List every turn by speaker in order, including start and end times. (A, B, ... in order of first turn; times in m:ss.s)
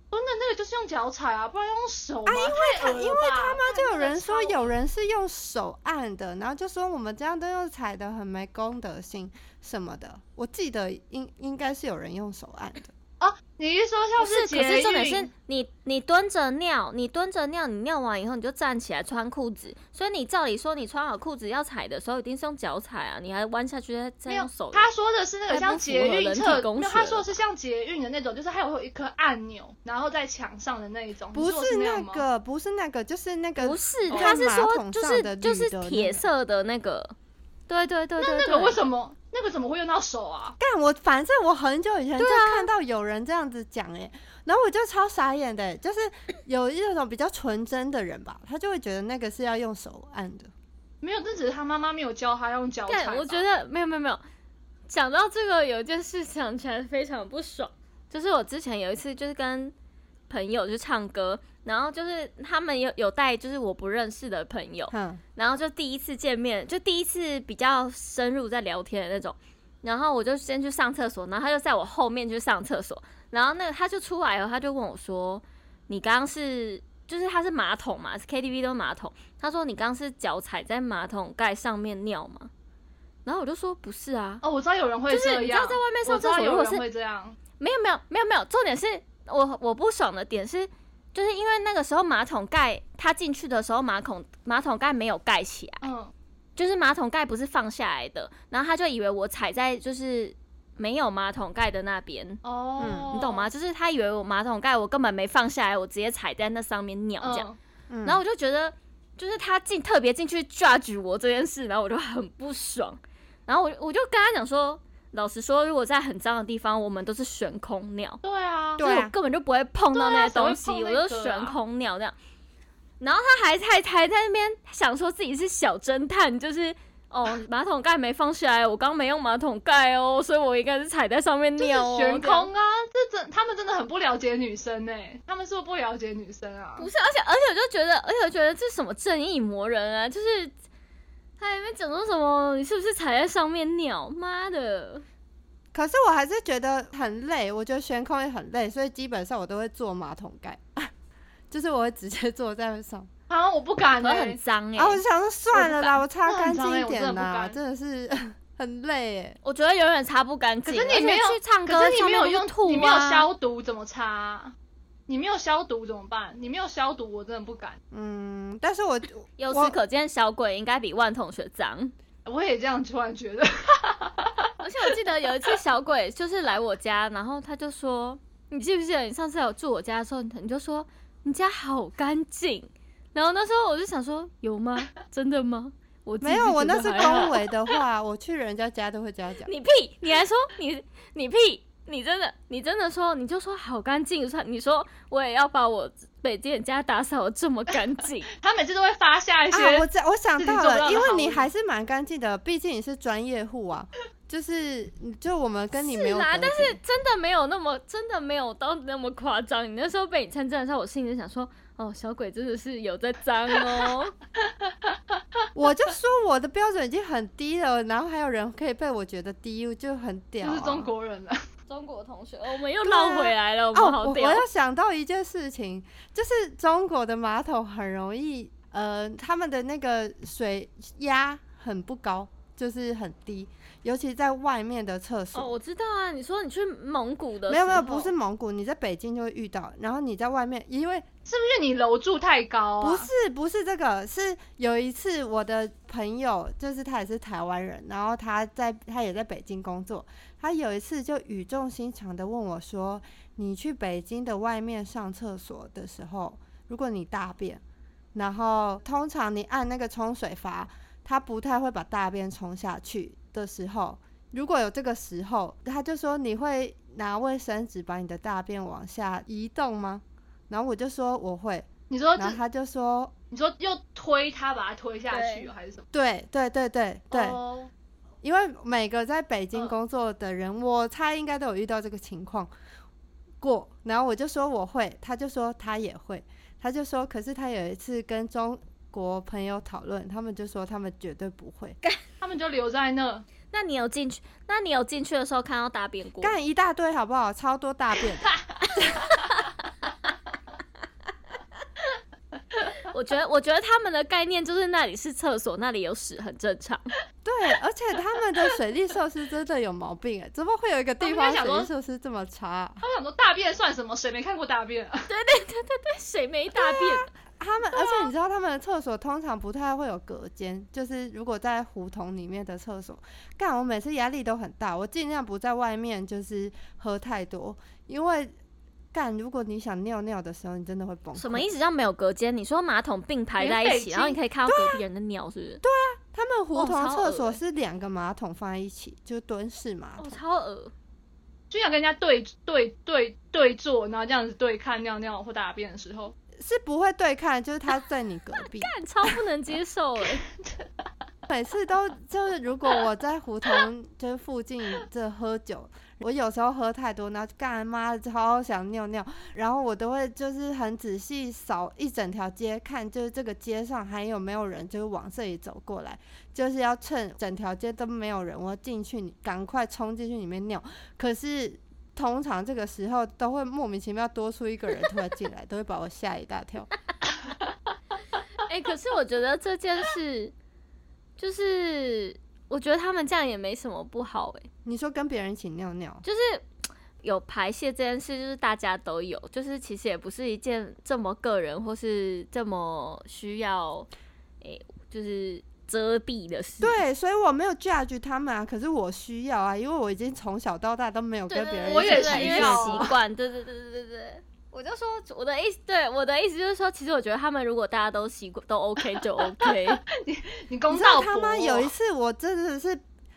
0:00.1-0:04.7 A
0:02.3-0:12.9 B
0:13.2-0:15.3 A
0:14.2-0:24.9 C
0:24.3-0:32.2 A
0:25.5-0:27.3 C
0:31.3-0:36.2 B
0:33.6-0:37.1 C
0:34.1-0:34.4 A
0:37.7-0:38.8 C
0:38.2-0:40.6 A
0:40.6-0:50.5 B
0:42.2-0:42.7 C
0:51.0-0:53.4 A
0:52.9-0:54.2 C
0:54.9-0:59.7 C
1:00.3-1:22.5 C
1:04.9-1:05.2 B
1:23.2-1:24.4 C
1:24.4-1:27.4 A
1:25.1-1:26.8 C
1:27.6-1:35.8 C
1:35.8-1:36.1 A
1:36.6-1:42.4 C
1:42.4-1:43.5 A
1:42.8-1:43.1 B
1:43.1-1:47.5 C
1:47.2-1:47.6 A
1:47.9-1:48.2 B
1:48.0-1:58.2 C
1:58.2-1:58.8 A
1:58.8-1:59.1 B
1:58.8-2:02.1 C
1:59.9-2:01.6 A
2:03.0-2:12.5 C
2:11.6-2:16.9 A
2:16.8-2:20.5 C
2:21.4-2:25.0 C
2:25.7-2:30.9 B
2:31.5-2:33.1 B
2:33.3-2:34.4 A
2:34.0-2:35.0 C
2:34.8-2:39.4 B
2:35.5-2:35.9 C
2:36.2-2:37.6 A
2:39.4-2:43.3 C
2:40.6-2:44.5 A
2:45.1-2:47.8 A
2:47.9-2:49.8 B
2:49.4-2:51.9 C
2:52.2-2:54.5 A
2:54.6-3:07.4 C
3:06.2-3:09.5 B
3:09.4-3:18.3 C
3:18.4-3:19.9 A
3:19.5-3:26.8 B
3:20.4-3:21.5 A
3:25.8-3:34.1 C
3:34.6-3:35.2 A
3:35.5-3:40.9 B
3:40.4-3:41.4 A
3:41.7-3:44.4 C
3:42.8-3:55.5 B
3:55.3-3:58.1 C
3:57.5-4:01.0 B
4:01.3-4:03.1 A
4:02.8-4:17.6 B
4:18.1-4:33.1 B
4:31.9-4:32.4 A
4:33.3-4:35.9 A
4:35.1-4:35.5 C
4:35.9-4:37.4 B
4:37.1-4:37.7 A
4:38.2-4:42.5 B
4:43.4-4:51.8 B
4:52.2-4:53.2 A
4:53.5-4:56.4 C
4:56.2-4:58.8 B
5:02.9-5:06.9 C
5:07.2-5:12.8 B
5:11.0-5:11.7 A
5:12.8-5:15.1 A
5:15.1-5:17.1 C
5:16.5-5:28.3 B
5:17.8-5:18.1 A
5:28.9-5:31.5 B
5:31.2-5:35.6 C
5:33.4-5:34.2 A
5:34.5-5:34.8 B
5:35.6-5:40.2 B
5:36.5-5:37.4 C
5:40.0-5:40.7 C
5:41.5-5:46.1 A
5:46.4-5:48.7 B
5:48.4-5:50.2 C
5:50.2-5:50.7 A
5:51.3-6:16.7 B
6:18.4-6:20.3 C
6:21.2-6:24.5 C
6:24.6-6:26.0 B
6:26.0-6:26.4 C
6:27.0-6:33.9 C
6:34.4-6:36.8 C
6:36.6-6:42.9 B
6:41.3-6:49.8 C
6:41.6-6:42.9 A
6:49.2-6:51.7 A
6:50.7-6:52.8 B